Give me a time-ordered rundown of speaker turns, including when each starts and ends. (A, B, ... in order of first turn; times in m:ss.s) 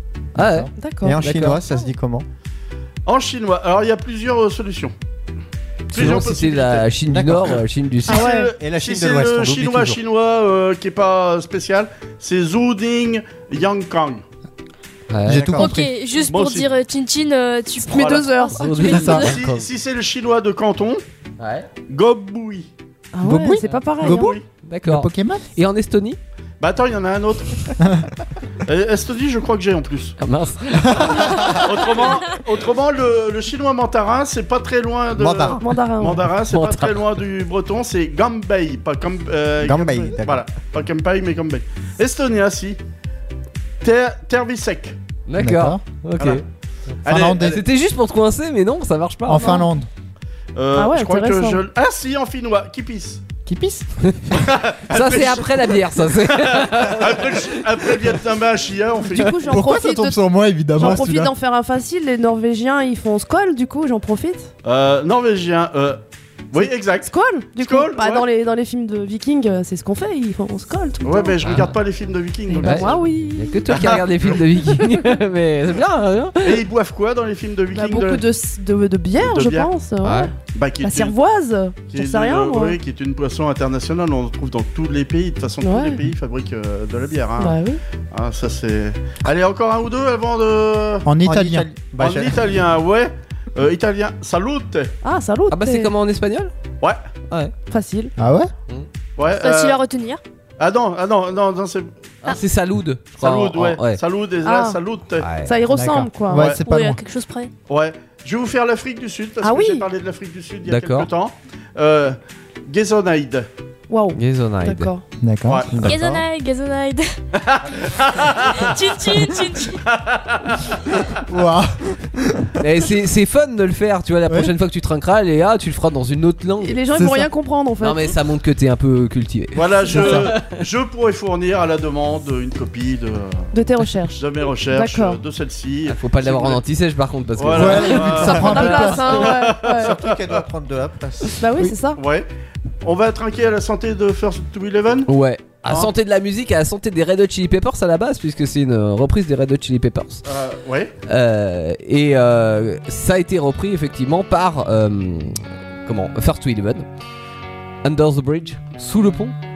0:00.4-0:01.6 A
0:00.4-0:00.7 B
0:00.8-0:01.1 C
0:01.0-0:02.2 D
0:03.0-0:04.9 E
0:05.9-0:08.3 A
0:05.9-0:06.9 E
0:07.1-0:07.6 D
0:08.0-0:14.2 E
0:08.1-0:08.5 C
0:08.6-0:10.0 D
0:15.1-0:15.6 A
0:15.2-0:15.9 B
0:15.3-0:15.7 D
0:15.5-0:19.4 F
0:16.2-0:16.7 E
0:17.9-0:18.9 C
0:17.9-0:18.3 E
0:18.5-0:19.7 A
0:18.9-0:19.3 B
0:19.0-0:21.0 E
0:21.4-0:21.7 A
0:21.9-0:22.7 E
0:23.1-0:24.4 C
0:23.2-0:24.3 B
0:24.0-0:24.4 E
0:24.6-0:26.2 A
0:24.8-0:25.4 B
0:26.6-0:27.7 E
0:28.6-0:30.2 E
0:30.2-0:31.6 A
0:31.0-0:31.5 B
0:31.6-0:42.8 E
0:35.2-0:35.6 D
0:35.6-0:36.2 C
0:36.5-0:37.1 A
0:39.6-0:40.4 D
0:43.8-0:45.0 E
0:45.3-0:46.4 A
0:45.4-0:45.8 B
0:46.2-0:46.4 E
0:47.0-0:47.6 B
0:47.0-0:47.6 E
0:47.2-0:49.6 A
0:49.2-0:49.9 B
0:49.4-0:49.7 C
0:50.5-0:53.2 E
0:50.8-0:51.6 C
0:53.4-0:53.8 B
0:54.0-0:54.4 A
0:54.3-0:55.7 E
0:54.9-0:58.0 A
0:56.3-0:59.4 E
0:59.1-1:00.2 C
0:59.5-1:01.3 B
1:00.7-1:04.5 C
1:04.6-1:06.0 E
1:06.5-1:08.3 E
1:06.6-1:11.4 C
1:11.0-1:13.1 E
1:11.4-1:11.7 A
1:12.5-1:13.6 C
1:12.6-1:16.6 A
1:13.7-1:14.4 E
1:16.4-1:18.2 E
1:17.7-1:22.8 C
1:19.2-1:19.7 E
1:20.0-1:20.3 A
1:20.5-1:21.1 E
1:21.9-1:27.6 E
1:25.6-1:26.0 C
1:27.4-1:27.8 C
1:28.1-1:31.1 E
1:31.0-1:31.7 B
1:31.2-1:32.4 D
1:32.0-1:34.9 E
1:35.0-1:35.9 C
1:35.5-1:36.5 A
1:37.7-1:38.1 C
1:38.2-1:38.5 B
1:39.2-1:39.8 E
1:39.4-1:40.2 F
1:40.6-1:41.9 E
1:42.2-1:44.0 A
1:43.2-1:45.3 E
1:44.4-1:44.8 C
1:45.2-1:45.5 A
1:45.4-1:46.4 C
1:45.7-1:47.0 B
1:46.3-1:46.6 E
1:46.6-1:47.5 F
1:47.7-1:53.5 E
1:49.4-1:49.9 C
1:50.7-1:51.1 A
1:53.9-1:55.0 C
1:54.2-1:54.9 A
1:55.2-1:55.7 B
1:55.4-1:55.7 E
1:55.7-1:56.2 D
1:55.8-1:57.1 F
1:57.4-1:58.7 E
1:58.5-1:59.8 F
1:59.8-2:00.6 E
2:01.3-2:02.5 B
2:02.6-2:06.8 A
2:04.3-2:04.5 B
2:06.6-2:08.0 C
2:06.9-2:07.3 B
2:07.8-2:10.6 A
2:09.5-2:13.5 E
2:09.9-2:10.3 B
2:13.5-2:15.2 C
2:14.1-2:16.6 E
2:15.9-2:18.6 A
2:17.4-2:20.4 E
2:17.5-2:19.4 B
2:18.1-2:20.0 C
2:19.7-2:21.4 D
2:21.4-2:22.0 C
2:21.9-2:22.3 E
2:22.8-2:25.1 E
2:25.1-2:30.2 A
2:30.2-2:30.9 E
2:31.1-2:36.8 A
2:37.8-2:39.3 A